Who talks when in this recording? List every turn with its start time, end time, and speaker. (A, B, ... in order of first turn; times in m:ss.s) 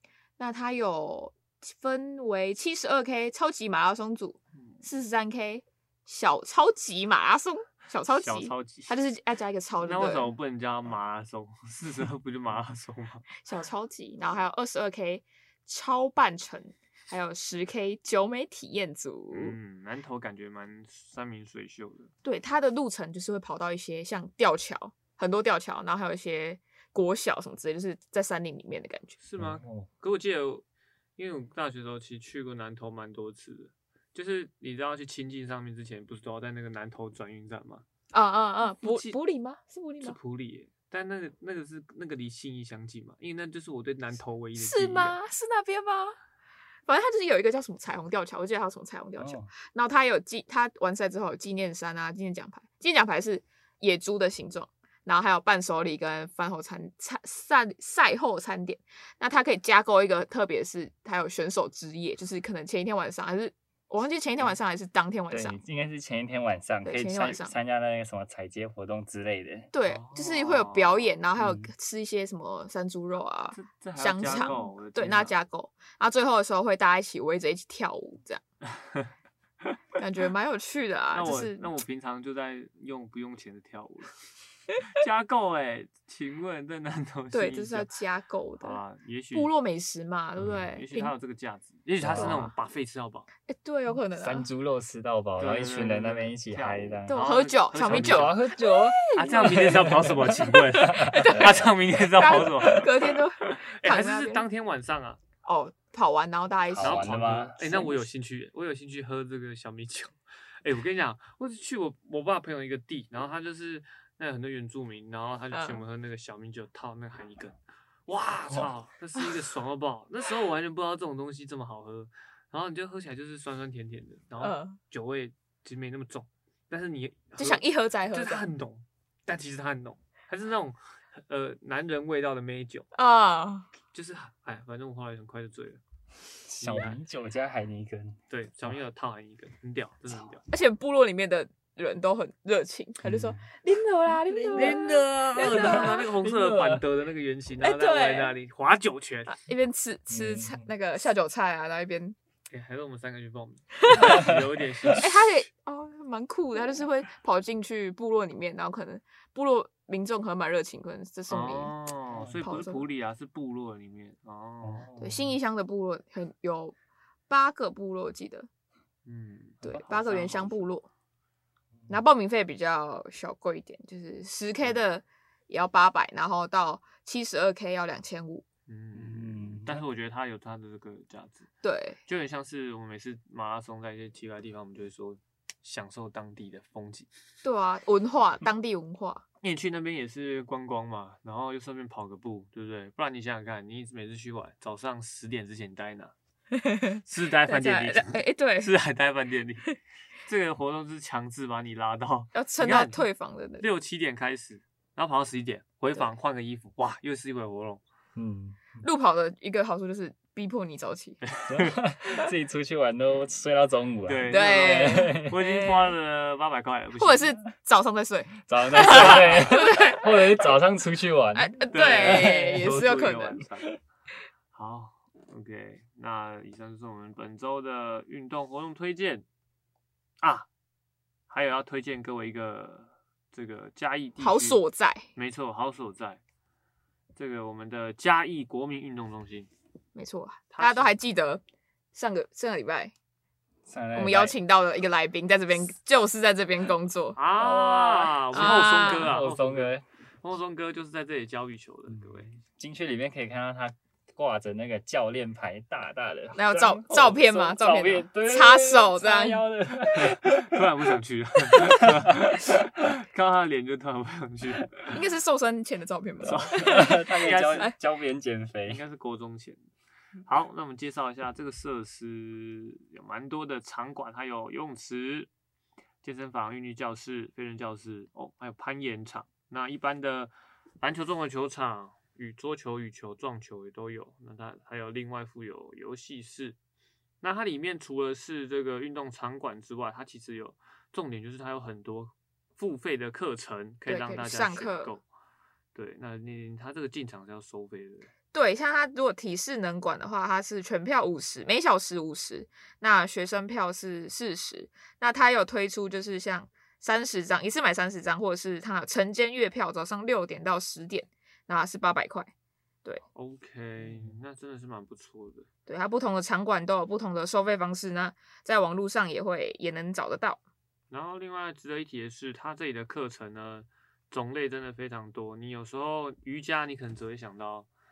0:00.4-0:10.3 A
0:08.2-0:08.9 B
0:09.8-0:13.2 B
0:13.4-0:19.6 A
0:19.3-0:22.1 B
0:22.2-0:29.1 A
0:29.2-0:30.6 B
0:29.4-0:29.9 C
0:31.2-0:37.8 B
0:38.1-0:40.2 A
0:38.8-0:39.2 B
0:40.0-0:45.2 B
0:44.5-0:46.2 A
0:46.9-1:05.6 A
0:49.2-0:49.5 C
1:05.3-1:09.7 C
1:06.8-1:07.5 A
1:09.7-1:18.4 A
1:09.8-1:11.1 B
1:11.4-1:11.7 C
1:13.5-1:15.3 B
1:18.7-1:19.1 B
1:20.0-1:21.6 A
1:21.1-1:24.2 B
1:24.8-1:27.9 B
1:27.3-1:28.8 A
1:28.6-1:29.5 B
1:29.3-1:31.1 A
1:30.4-1:30.7 C
1:30.7-1:33.3 B
1:32.0-1:32.4 C
1:32.1-1:32.5 A
1:33.5-1:34.4 A
1:34.2-1:41.7 C
1:35.4-1:38.4 B
1:37.1-1:44.4 A
1:39.1-1:45.2 B
1:42.4-1:42.9 C
1:45.4-1:47.9 A
1:46.7-1:47.6 C
1:46.8-2:12.9 B
1:55.5-1:55.8 A
2:04.4-2:04.8 A
2:07.4-2:08.5 A
2:12.9-2:13.7 A
2:13.9-2:15.8 B
2:16.5-2:18.8 C
2:16.6-2:17.0 B
2:18.3-2:20.4 B
2:20.5-2:26.0 A
2:23.0-2:23.4 C
2:24.3-2:26.8 C
2:24.5-2:29.3 B
2:27.6-2:28.3 A
2:29.3-2:32.2 A
2:30.1-2:30.7 C
2:32.5-2:35.3 B
2:33.9-2:34.2 A
2:34.0-2:35.0 C
2:35.0-2:41.7 A
2:41.3-2:44.9 B
2:42.4-2:42.8 A
2:44.6-2:45.4 C
2:45.0-2:46.7 A
2:47.3-2:48.5 A
2:49.0-2:50.6 B
2:49.6-2:50.8 A
2:51.9-2:58.4 A
2:58.7-3:01.5 B
2:58.9-2:59.8 C
3:01.6-3:02.0 A
3:02.0-3:07.1 B
3:07.4-3:09.2 A
3:09.4-3:16.1 B
3:16.5-3:18.7 A
3:17.0-3:19.7 B
3:20.2-3:23.0 B
3:22.3-3:23.6 A
3:23.6-3:27.8 B
3:28.2-3:28.8 C
3:28.8-3:31.2 A
3:31.2-3:31.8 B
3:31.5-3:35.3 C
3:34.0-3:37.3 B
3:34.3-3:35.9 A
3:37.0-3:40.1 A
3:38.5-3:42.8 C
3:39.0-3:39.4 B
3:41.3-3:43.4 A
3:41.7-3:43.7 B
3:44.5-3:49.2 B
3:50.2-3:50.5 B
3:51.3-3:54.6 B
3:54.2-3:55.0 A
3:55.1-3:56.2 B
3:57.2-3:59.5 B
3:59.9-4:01.4 A
4:00.5-4:00.9 B
4:01.9-4:02.9 A
4:03.6-4:04.4 C
4:03.9-4:07.2 A
4:07.1-4:12.3 B
4:07.4-4:09.8 C
4:08.3-4:09.2 A
4:11.9-4:20.6 C
4:16.3-4:19.4 A
4:20.0-4:22.3 B
4:21.6-4:22.5 C
4:22.8-4:24.8 B
4:24.9-4:27.0 A
4:26.2-4:28.8 C
4:26.3-4:27.7 B
4:28.7-4:29.6 B
4:30.2-4:35.3 B
4:36.0-4:46.6 B
4:47.2-4:55.0 B
4:53.8-4:54.9 A
4:55.7-4:58.1 B
4:58.3-5:12.3 A
5:13.1-5:15.4 B
5:13.8-5:14.1 C
5:15.7-5:20.4 A
5:20.9-5:27.7 B